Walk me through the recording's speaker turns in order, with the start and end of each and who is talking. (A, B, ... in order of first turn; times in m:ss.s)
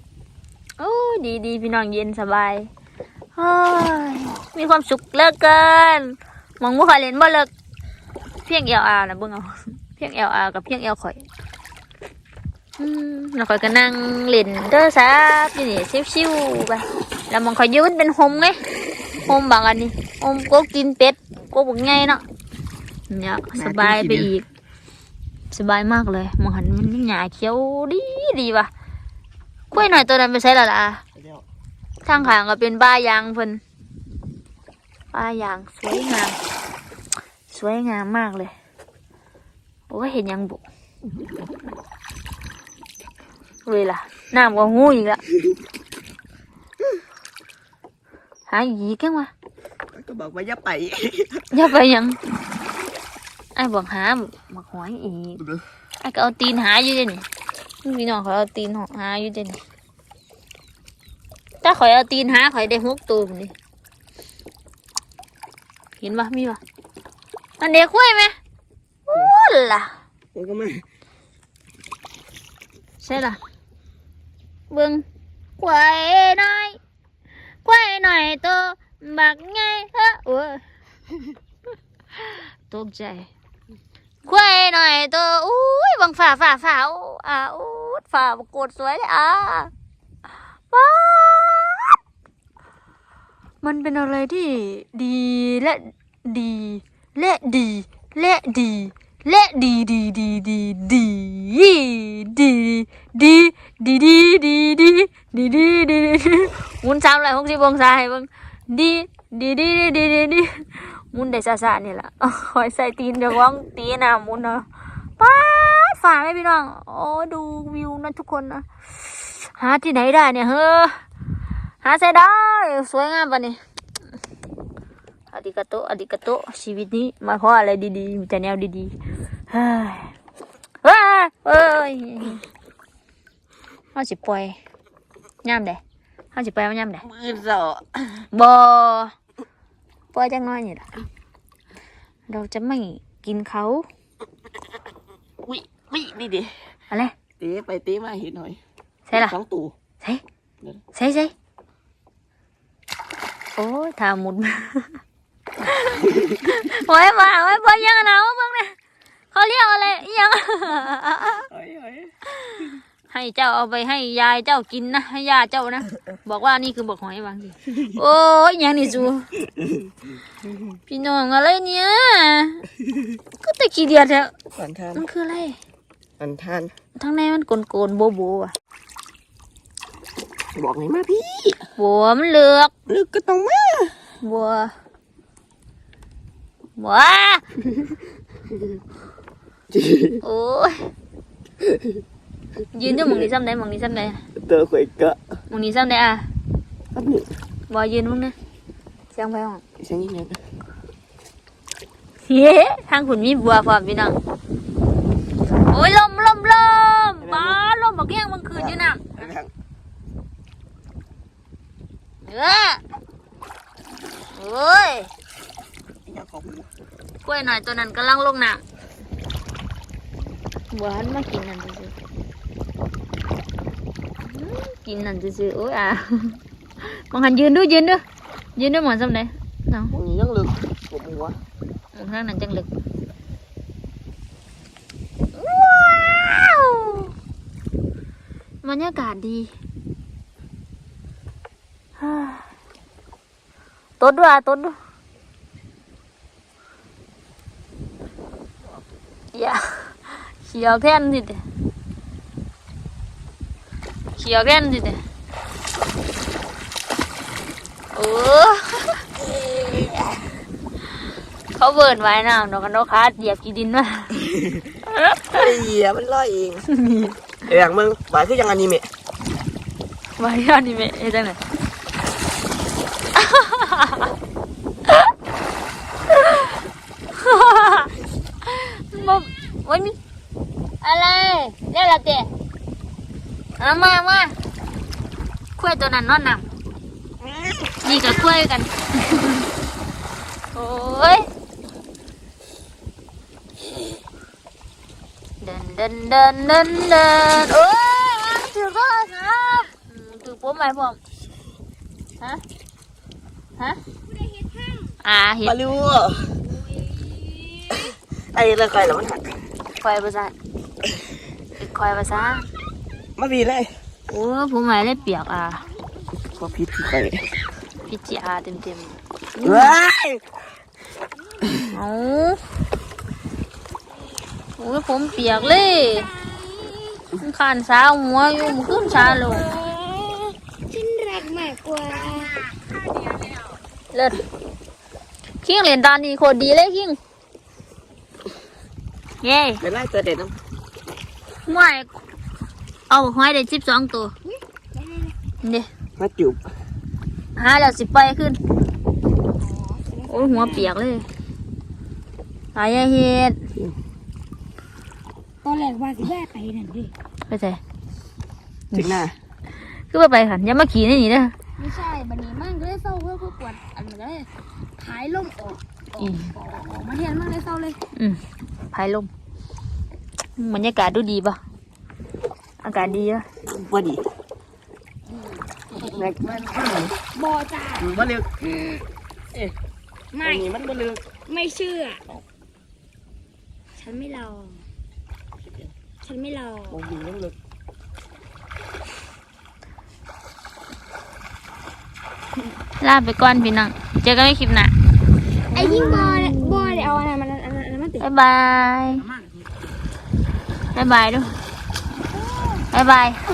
0:00.8-0:02.7 A
0:03.4-0:07.5 A
0:08.4-0:11.3 A
0:12.8-0:18.6 A
0:19.2-0:22.2 A
0:23.1-0:24.5 A
0:23.6-0:24.3 B
0:25.5-0:28.7 A
0:29.7-0:31.0 A
0:31.2-0:31.4 B
0:32.0-0:33.6 A
0:35.1-0:36.4 A
0:37.5-0:38.5 A
0:39.9-0:40.6 A
0:43.6-0:45.2 A
0:48.5-0:49.3 A
0:49.9-0:51.5 B
0:51.5-0:52.2 A
0:53.6-0:55.4 A
0:56.0-0:57.2 A
0:57.8-0:59.6 A
1:01.6-1:03.5 A
1:06.0-1:06.6 A
1:07.6-1:08.4 A
1:09.1-1:10.0 A
1:10.3-1:10.8 B
1:13.0-1:13.4 A
1:14.7-1:15.0 A
1:15.6-1:16.8 A
1:17.6-1:20.6 A
1:22.1-1:23.3 A
1:24.2-1:29.7 A
1:30.7-1:32.0 A
1:33.6-1:54.7 A
1:55.2-2:01.0 A
2:01.8-2:03.6 A
2:05.3-2:09.0 A
2:09.5-2:10.2 A
2:10.8-2:12.4 A
2:14.0-2:14.6 A
2:15.4-2:15.8 A
2:16.3-2:17.0 A
2:17.0-2:18.3 B
2:18.3-2:19.1 A
2:20.1-2:20.9 A
2:22.3-2:23.9 A
2:25.4-2:26.5 B
2:27.4-2:28.6 B
2:29.1-2:29.4 A
2:29.1-2:29.7 B
2:30.9-2:31.3 A
2:33.6-2:35.0 A
2:35.6-2:38.8 A
2:39.3-2:41.5 A
2:41.5-2:42.1 B
2:42.3-2:49.3 A
2:50.9-2:52.6 A
2:53.4-2:54.3 A
2:54.6-2:55.1 B
2:55.0-2:55.6 A
2:56.2-2:56.7 B
2:57.0-2:58.5 A
3:00.6-3:01.6 B
3:01.8-3:02.7 A
3:02.9-3:04.0 B
3:04.2-3:04.7 A
3:06.8-3:07.4 A
3:09.7-3:10.2 B
3:10.2-3:10.9 A
3:12.7-3:14.2 A
3:12.9-3:13.2 B
3:14.4-3:15.2 B
3:15.5-3:16.3 A
3:16.9-3:17.3 B
3:17.7-3:18.4 A
3:19.1-3:19.6 A
3:19.8-3:20.4 B
3:22.3-3:24.2 A
3:25.7-3:29.3 A
3:27.2-3:27.6 B
3:28.6-3:29.5 B
3:32.2-3:32.8 A
3:34.3-3:35.1 A
3:36.1-3:36.7 B
3:37.2-3:38.6 A
3:40.7-3:41.9 A
3:44.2-3:48.0 A
3:48.6-3:50.0 A
3:49.9-3:51.4 B
3:51.9-3:52.7 A
3:55.3-3:57.1 A
3:58.6-3:59.5 A
4:02.0-4:02.4 A
4:04.0-4:04.8 A
4:09.3-4:11.4 A
4:14.2-4:15.0 A
4:17.9-4:20.1 A
4:21.6-4:24.2 A
4:24.9-4:25.4 A
4:25.3-4:26.7 B
4:26.7-4:27.2 A
4:27.5-4:28.9 B
4:30.2-4:31.4 A
4:33.2-4:34.1 A
4:36.1-4:36.6 A
4:37.1-4:40.0 A
4:40.8-4:42.3 A
4:43.6-4:44.4 A
4:45.6-4:46.5 A
4:47.2-4:47.8 B
4:47.8-4:49.5 A
4:50.5-4:51.3 A
4:55.4-5:01.0 A
5:04.4-5:04.9 C
5:05.0-5:05.6 A
5:05.4-5:06.4 B
5:07.7-5:09.4 B
5:09.8-5:10.4 A
5:11.6-5:12.5 A
5:13.2-5:13.7 B
5:14.1-5:15.6 A
5:16.3-5:17.3 B
5:17.9-5:19.8 A
5:19.4-5:20.2 B
5:21.7-5:22.4 A
5:24.6-5:26.1 A
5:25.6-5:27.0 C
5:27.1-5:29.5 A
5:28.6-5:32.7 C
5:33.9-5:34.2 A
5:35.4-5:37.0 A
5:39.2-5:39.6 A
5:39.6-5:40.3 B
5:41.5-5:41.9 A
5:42.9-5:44.1 A
5:44.3-5:45.2 C
5:45.4-5:45.7 A
5:46.0-5:46.4 B
5:47.4-5:48.4 A
5:49.4-5:50.7 C
5:50.1-5:51.1 A
5:52.6-5:53.4 A
5:55.4-5:56.9 C
5:57.3-5:57.6 A
5:58.7-5:59.1 A
5:58.7-5:59.1 B
5:59.7-6:01.3 A
6:01.6-6:07.8 C
6:06.0-6:06.3 A
6:08.0-6:08.2 A
6:08.7-6:09.1 A
6:10.4-6:11.4 A
6:12.6-6:13.3 A
6:13.5-6:14.0 B
6:15.8-6:16.0 C
6:16.0-6:17.0 B
6:17.1-6:17.9 C
6:17.8-6:18.3 B
6:18.5-6:18.8 C
6:20.1-6:20.6 C
6:20.2-6:21.0 B
6:21.2-6:22.0 C
6:23.8-6:24.7 C
6:26.0-6:26.8 C
6:26.7-6:27.4 B
6:32.8-6:34.7 A
6:35.5-6:38.1 C
6:35.5-6:37.0 A
6:38.0-6:39.1 A
6:40.7-6:41.4 A
6:42.1-6:42.7 C
6:42.7-6:43.2 A